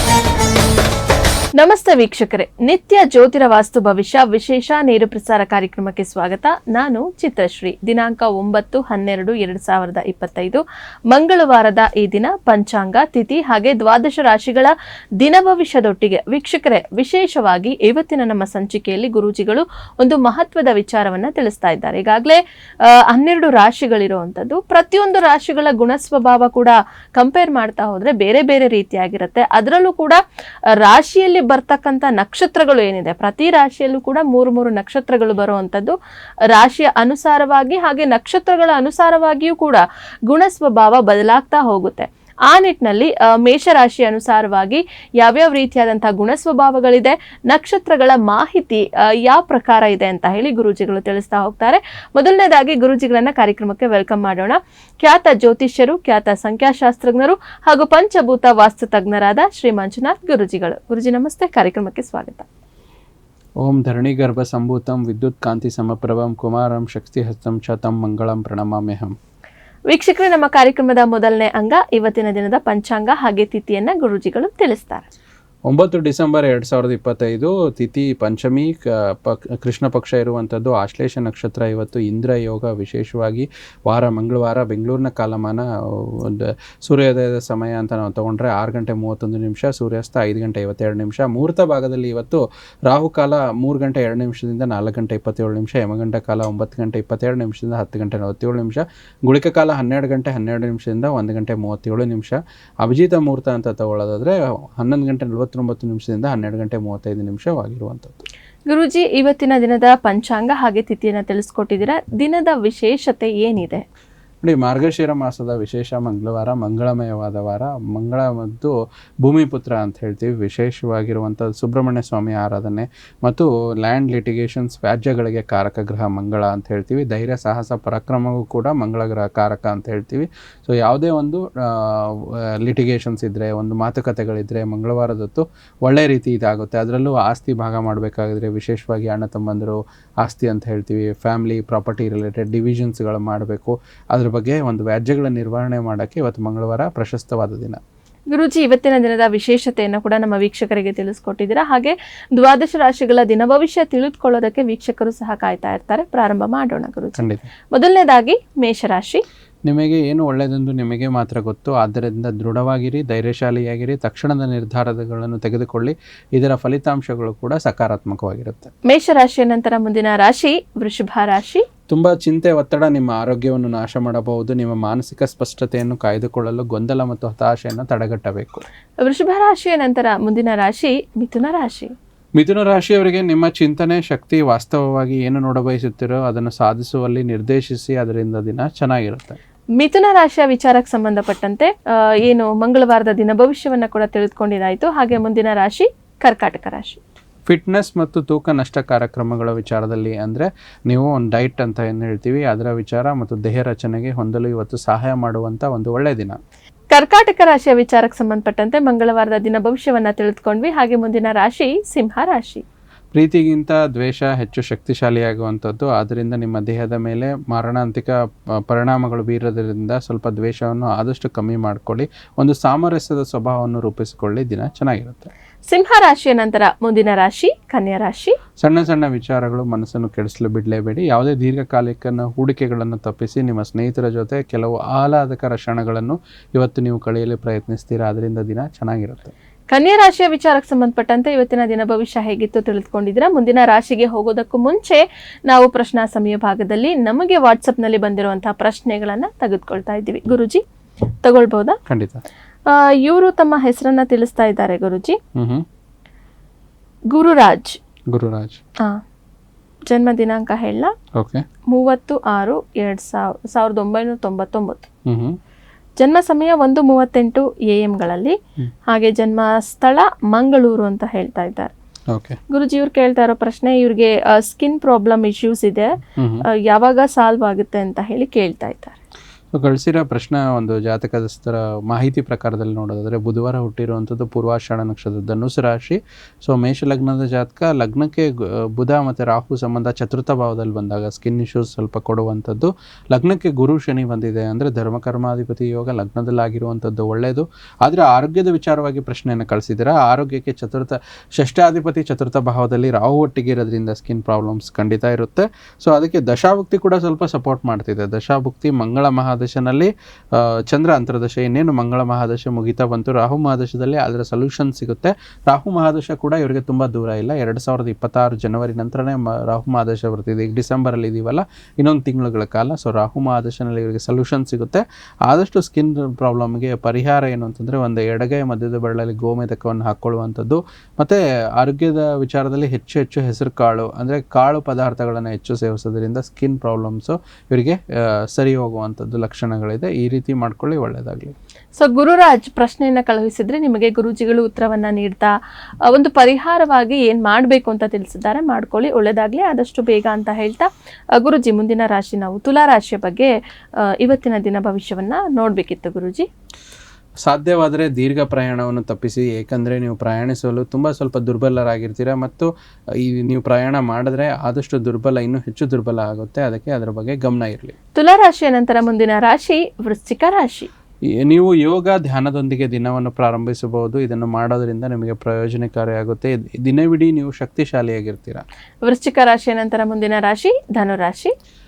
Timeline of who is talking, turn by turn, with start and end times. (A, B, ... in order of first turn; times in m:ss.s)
0:01.6-0:22.4 A
0:23.1-0:30.2 A
0:30.7-0:36.0 A
0:36.5-1:02.5 A
1:03.6-1:09.2 B
1:09.9-1:15.1 A
1:15.7-1:48.2 B
1:48.7-1:53.8 A
1:54.4-2:27.8 B
2:28.3-2:39.2 A
2:37.2-2:37.5 B
2:39.7-2:48.7 B
2:48.9-2:51.7 A
2:51.9-2:58.6 B
2:59.0-3:01.9 A
3:02.4-3:09.4 B
3:09.8-3:17.0 A
3:17.5-3:26.4 B
3:26.9-3:32.6 A
3:33.1-3:38.2 B
3:38.7-3:45.3 B
3:45.7-3:48.4 A
3:48.6-3:59.3 B
3:59.7-4:10.6 A
4:11.2-4:11.8 A
4:11.9-4:12.2 B
4:12.7-4:15.2 A
4:15.4-4:15.6 B
4:17.1-4:17.8 A
4:18.1-4:18.6 B
4:19.9-4:20.9 A
4:21.2-4:21.4 B
4:21.7-4:24.9 A
4:25.1-4:25.4 B
4:26.0-4:28.4 A
4:28.9-4:31.7 A
4:32.1-4:32.4 B
4:32.5-4:36.0 A
4:36.2-4:36.4 B
4:36.7-4:39.0 A
4:39.5-5:37.8 B
5:38.3-5:41.4 B
5:41.8-5:45.3 A
5:45.9-5:53.3 A
5:53.9-5:56.3 A
5:57.3-6:07.8 B
6:08.0-6:10.7 A
6:11.2-6:18.4 B
6:18.9-6:21.3 A